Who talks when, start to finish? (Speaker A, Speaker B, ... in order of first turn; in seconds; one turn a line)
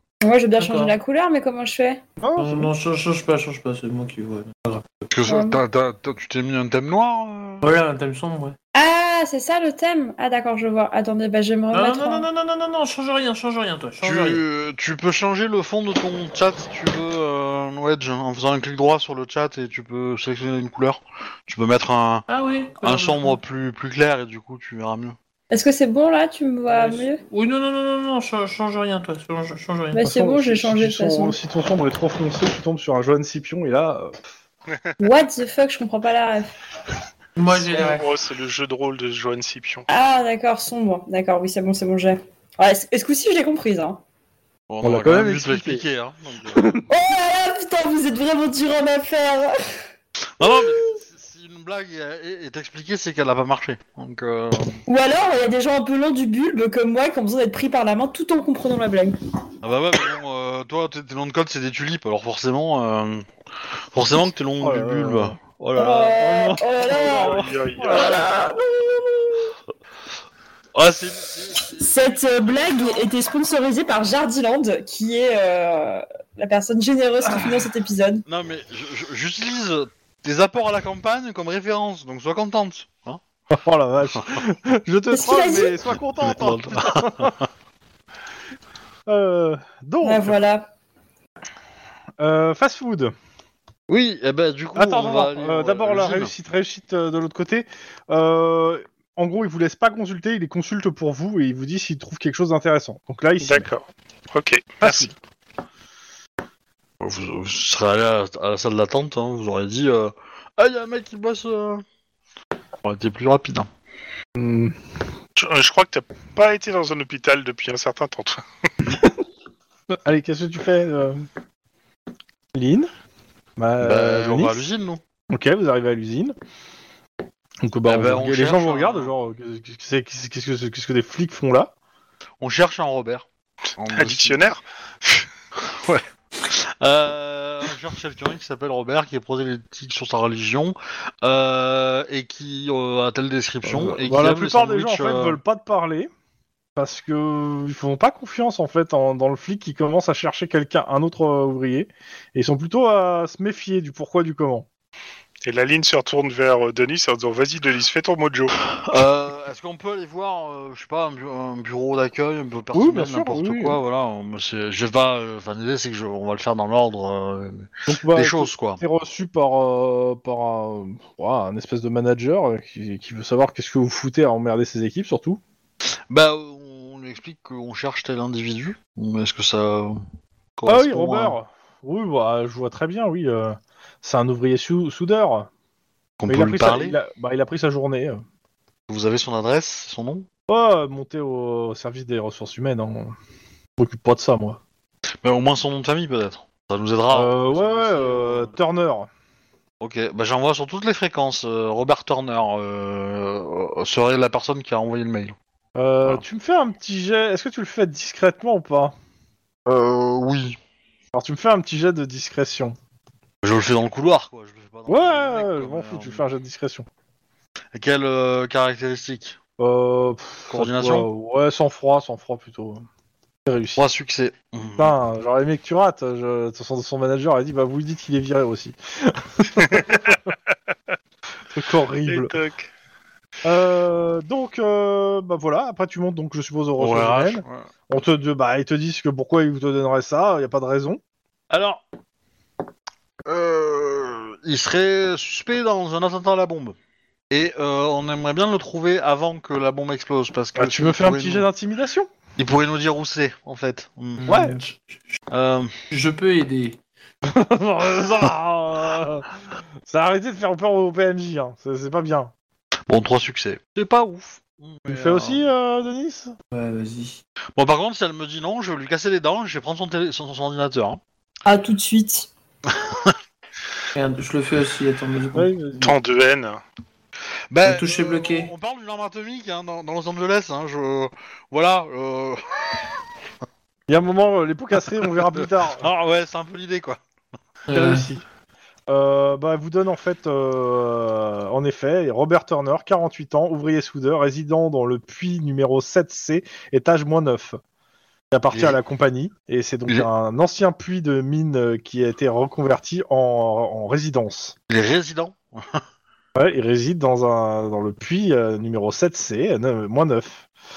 Speaker A: 0.2-2.0
Speaker B: 0.6-1.0
Speaker C: 2.2-2.7
Speaker B: 2.4-5.0
Speaker D: 5.1-7.7
Speaker A: 5.2-5.6
Speaker B: 7.6-8.6
Speaker A: 8.7-12.3
Speaker B: 11.7-14.4
Speaker D: 14.0-22.2
Speaker B: 22.3-23.4
Speaker D: 22.8-25.2
Speaker A: 25.5-27.2
Speaker B: 26.7-30.0
Speaker A: 29.9-31.4
Speaker C: 30.0-34.1
Speaker A: 35.0-36.5
Speaker B: 37.4-38.1
Speaker E: 37.5-39.9
Speaker A: 39.9-44.0
Speaker D: 44.7-46.7
Speaker C: 44.8-45.9
Speaker C: 46.5-46.9
Speaker A: 46.9-49.8
Speaker D: 50.4-54.8
Speaker C: 50.4-50.8
Speaker A: 54.9-59.2
Speaker D: 59.6-63.3
Speaker D: 63.9-66.4
Speaker C: 64.6-65.4
Speaker A: 65.8-69.2
Speaker C: 66.2-68.4
Speaker E: 66.9-68.1
Speaker D: 70.7-73.0
Speaker A: 71.7-78.2
Speaker C: 77.3-77.7
Speaker D: 78.3-83.2
Speaker C: 83.5-87.3
Speaker A: 85.1-85.8
Speaker D: 86.2-87.4
Speaker C: 89.1-90.3
Speaker A: 90.0-90.7
Speaker C: 92.2-93.1
Speaker D: 93.9-96.3
Speaker C: 94.8-103.7
Speaker E: 103.4-105.1
Speaker C: 104.8-105.1
Speaker D: 107.0-111.8
Speaker D: 112.8-113.7
Speaker C: 114.4-114.8
Speaker E: 115.4-118.4
Speaker C: 118.8-119.2
Speaker C: 119.9-121.3
Speaker C: 122.5-122.9
Speaker C: 123.6-124.7
Speaker D: 123.8-125.0
Speaker C: 125.3-126.3
Speaker C: 127.6-131.7
Speaker D: 127.9-129.1
Speaker D: 132.4-133.3
Speaker D: 133.8-134.4
Speaker E: 133.9-135.3
Speaker D: 135.6-145.4
Speaker C: 143.6-146.1
Speaker C: 146.8-154.7
Speaker E: 155.4-158.5
Speaker D: 158.7-168.8
Speaker C: 162.7-163.8
Speaker C: 167.9-175.4
Speaker D: 176.1-180.0
Speaker D: 180.6-181.3
Speaker C: 180.7-185.5
Speaker D: 186.2-187.0
Speaker C: 186.3-188.2
Speaker D: 188.9-190.3
Speaker C: 190.5-193.1
Speaker C: 193.8-194.6
Speaker D: 195.2-198.5
Speaker C: 197.1-199.1
Speaker D: 199.8-205.4
Speaker C: 205.8-208.9
Speaker D: 209.7-210.6
Speaker C: 211.1-212.8
Speaker D: 213.4-216.2
Speaker C: 214.9-216.9
Speaker D: 217.8-219.4
Speaker C: 219.6-222.8
Speaker D: 220.5-221.1
Speaker C: 223.4-223.8
Speaker D: 223.8-224.9
Speaker C: 224.8-230.3
Speaker E: 229.6-230.0
Speaker C: 231.5-232.3
Speaker E: 232.1-232.7
Speaker C: 233.4-241.0
Speaker D: 236.8-237.7
Speaker D: 241.5-241.8
Speaker D: 243.3-246.8
Speaker D: 247.3-251.4
Speaker C: 250.6-252.1
Speaker D: 252.4-254.3
Speaker B: 254.2-255.2
Speaker C: 254.3-254.6
Speaker D: 255.3-255.7
Speaker B: 255.9-256.8
Speaker C: 257.2-259.3
Speaker C: 259.9-262.3
Speaker D: 262.9-265.4
Speaker C: 264.9-266.4
Speaker B: 266.5-267.2
Speaker D: 267.6-271.0
Speaker A: 271.5-272.3
Speaker D: 272.7-273.1
Speaker B: 273.9-275.5
Speaker C: 275.3-275.9
Speaker E: 275.8-276.6
Speaker D: 277.5-282.9
Speaker B: 277.6-278.5
Speaker C: 283.9-285.9
Speaker D: 285.8-287.0
Speaker B: 287.7-288.1
Speaker C: 287.7-288.2
Speaker C: 288.9-297.6
Speaker C: 298.3-304.6
Speaker D: 304.7-305.8
Speaker C: 306.4-310.5